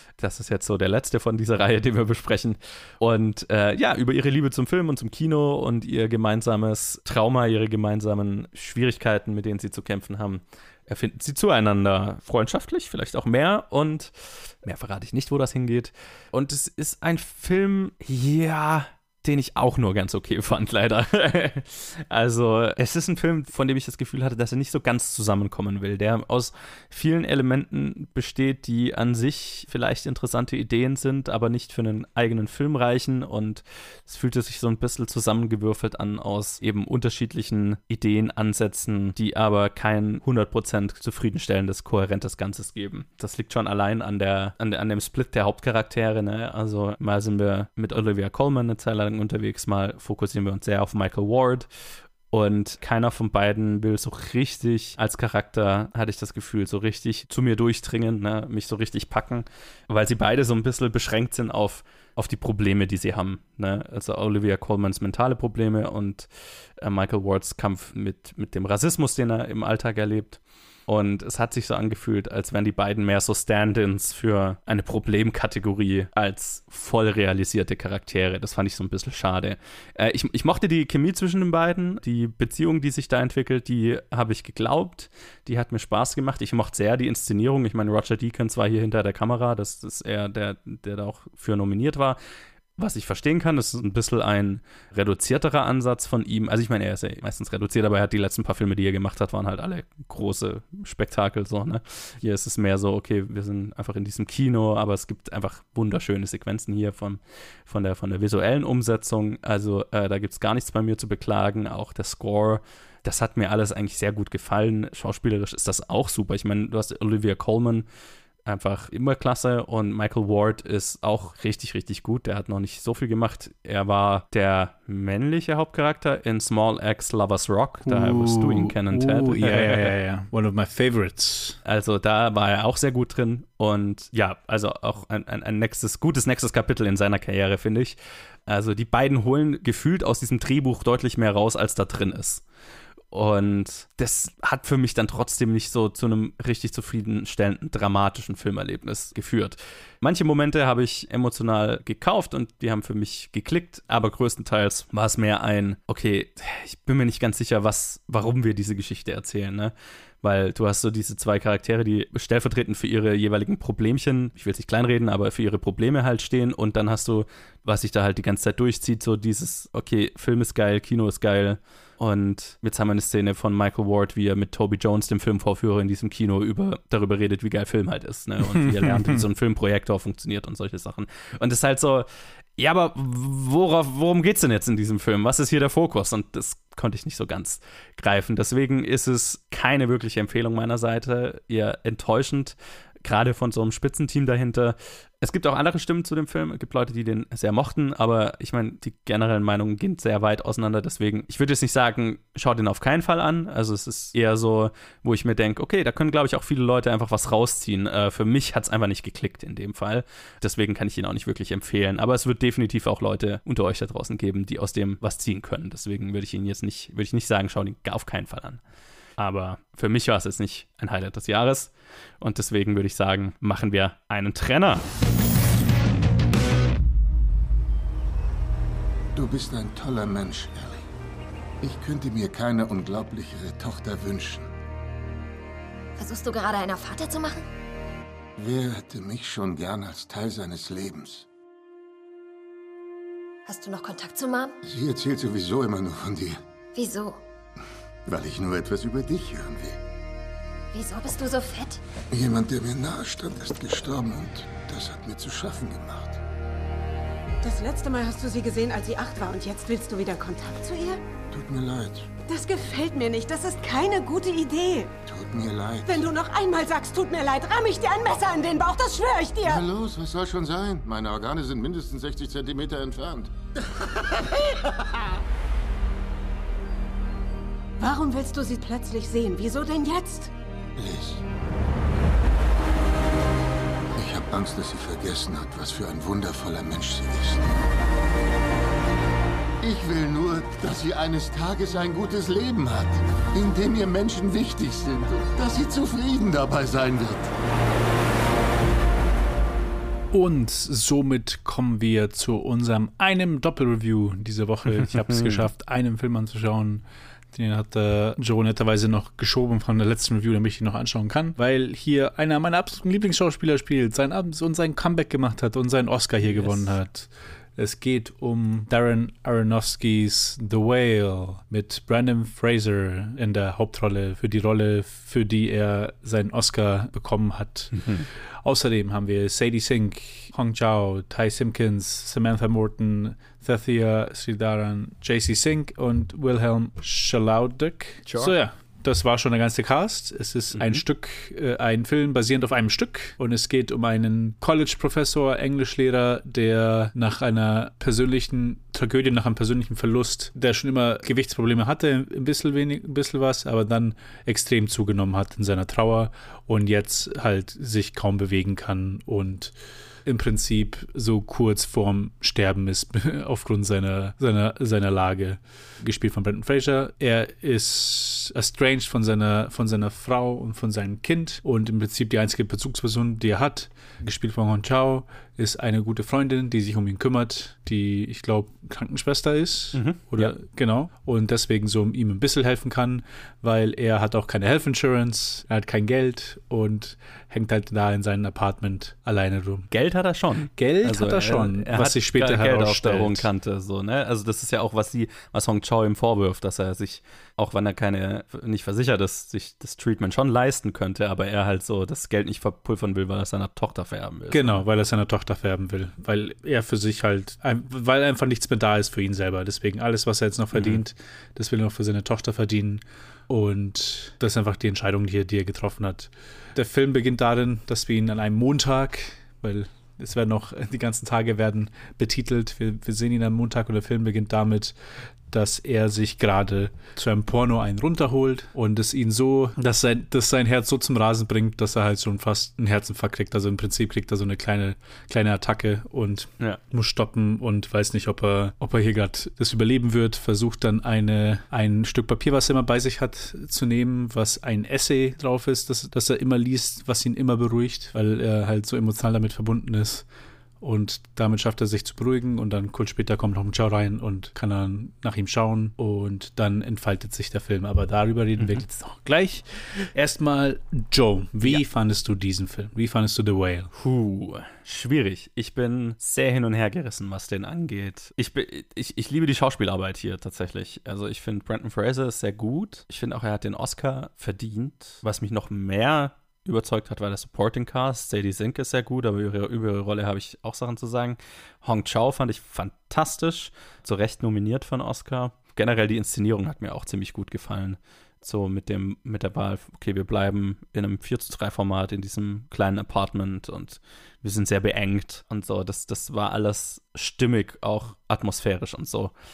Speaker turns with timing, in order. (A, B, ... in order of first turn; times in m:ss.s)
0:00.2-0:51.7 A
0:52.3-1:06.3 A
1:06.8-1:32.2 A
1:32.8-1:57.8 A
1:58.4-2:09.9 A
2:07.8-2:11.6 B
2:11.6-2:22.4 A
2:23.1-3:38.6 A
3:39.2-3:44.8 A
3:49.1-3:50.8 C
3:51.6-3:54.5 C
3:56.0-3:57.4 D
3:58.4-4:01.2 C
4:03.4-4:04.5 D
4:04.6-4:06.4 C
4:06.7-4:07.2 D
4:08.0-4:09.8 C
4:10.7-4:11.8 D
4:12.1-4:16.2 C
4:17.4-4:21.0 E
4:21.3-4:22.1 C
4:22.3-4:24.9 E
4:25.0-4:26.1 C
4:25.9-4:29.6 E
4:29.4-4:33.3 C
4:37.8-4:40.3 E
4:40.8-4:41.2 C
4:44.0-4:47.5 C
4:49.6-4:57.3 C
5:00.1-5:06.8 B
5:04.8-5:05.4 A
5:07.3-5:27.8 B
5:16.2-5:16.7 A
5:27.8-5:28.0 A
5:28.4-5:59.5 B
5:38.1-5:38.3 A
5:40.5-5:40.8 A
6:00.0-6:29.7 B
6:19.7-6:20.3 A
6:29.7-6:44.6 A
6:30.5-6:33.3 B
6:44.3-7:04.7 B
6:50.5-6:50.8 A
7:05.3-7:30.0 B
7:30.6-7:43.7 B
7:38.4-7:38.6 A
7:43.7-8:19.1 A